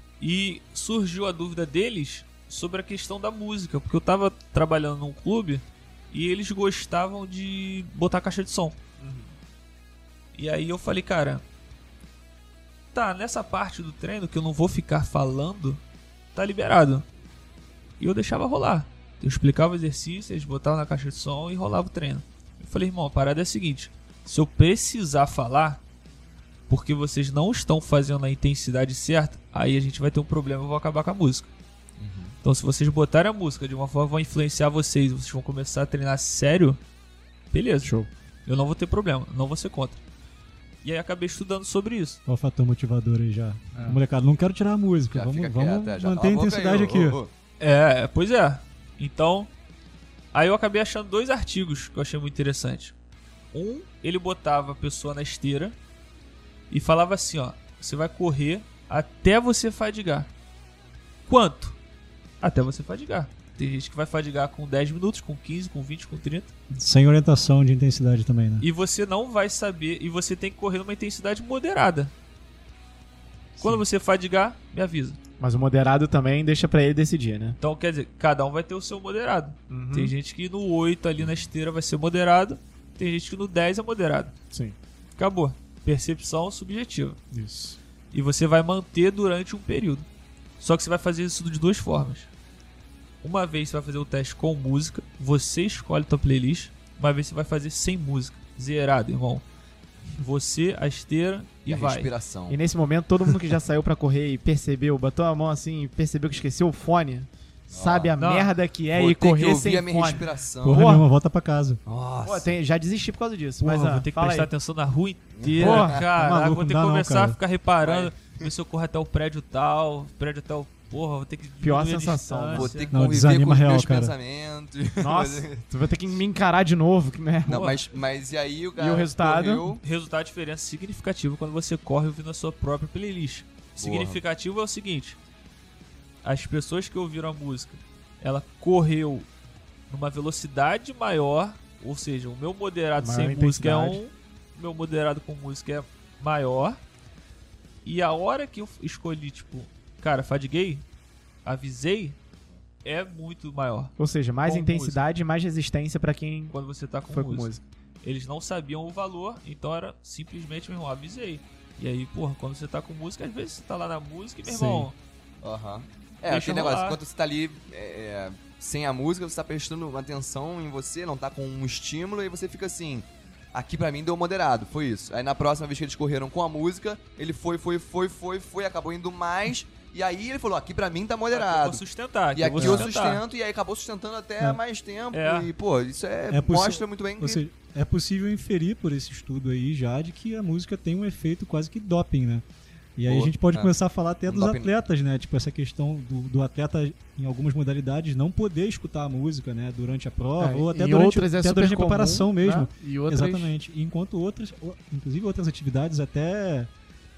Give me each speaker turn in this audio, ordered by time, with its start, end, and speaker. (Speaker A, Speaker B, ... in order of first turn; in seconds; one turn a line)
Speaker A: 0.2-8.8
Speaker B: 9.0-9.3
Speaker A: 10.3-11.4
Speaker A: 12.9-15.8
Speaker A: 16.4-17.1
Speaker A: 18.0-25.8
Speaker A: 26.7-31.5
Speaker C: 32.0-32.4
Speaker A: 32.4-36.8
Speaker A: 37.5-37.9
Speaker B: 37.8-38.1
Speaker A: 38.5-40.0
Speaker A: 40.8-42.2
Speaker D: 42.3-47.2
Speaker B: 43.7-44.0
Speaker C: 45.1-47.3
Speaker A: 47.6-49.5
Speaker A: 50.3-52.9
Speaker A: 53.5-55.8
Speaker A: 56.7-60.3
Speaker A: 61.3-61.8
Speaker A: 62.4-66.5
Speaker D: 66.7-68.7
Speaker A: 68.6-72.1
Speaker A: 73.6-75.2
Speaker B: 75.4-77.6
Speaker A: 77.6-84.3
Speaker B: 79.7-80.1
Speaker A: 85.2-87.2
Speaker B: 87.3-87.8
Speaker A: 88.1-90.1
Speaker A: 90.6-92.3
Speaker A: 93.2-99.5
Speaker A: 100.2-102.1
Speaker C: 101.7-102.6
Speaker B: 102.5-111.1
Speaker C: 107.7-108.1
Speaker A: 108.2-108.5
Speaker C: 108.9-111.0
Speaker D: 110.6-111.8
Speaker C: 111.8-112.5
Speaker B: 112.2-114.5
Speaker D: 113.6-114.0
Speaker A: 113.7-123.0
Speaker C: 115.4-116.0
Speaker B: 115.4-116.0
Speaker D: 116.0-117.4
Speaker C: 117.8-118.3
Speaker B: 121.6-122.8
Speaker C: 122.5-125.6
Speaker D: 122.9-124.1
Speaker B: 125.0-127.7
Speaker C: 127.5-129.8
Speaker A: 127.5-127.8
Speaker B: 128.8-129.7
Speaker A: 129.8-135.2
Speaker C: 133.8-134.2
Speaker A: 136.2-139.3
Speaker A: 139.9-146.8
Speaker B: 143.0-144.0
Speaker A: 147.8-150.8
Speaker A: 151.4-152.2
Speaker A: 152.8-153.9
Speaker B: 154.0-156.6
Speaker A: 154.4-155.0
Speaker A: 156.5-165.0
Speaker B: 157.1-157.6
Speaker B: 164.4-164.9
Speaker C: 165.4-181.8
Speaker A: 166.3-167.0
Speaker A: 181.3-183.2
Speaker C: 182.3-187.4
Speaker B: 182.6-182.9
Speaker A: 185.1-185.5
Speaker D: 186.3-192.4
Speaker D: 193.0-206.7
Speaker C: 193.1-193.7
Speaker C: 194.3-194.7
Speaker B: 200.4-203.5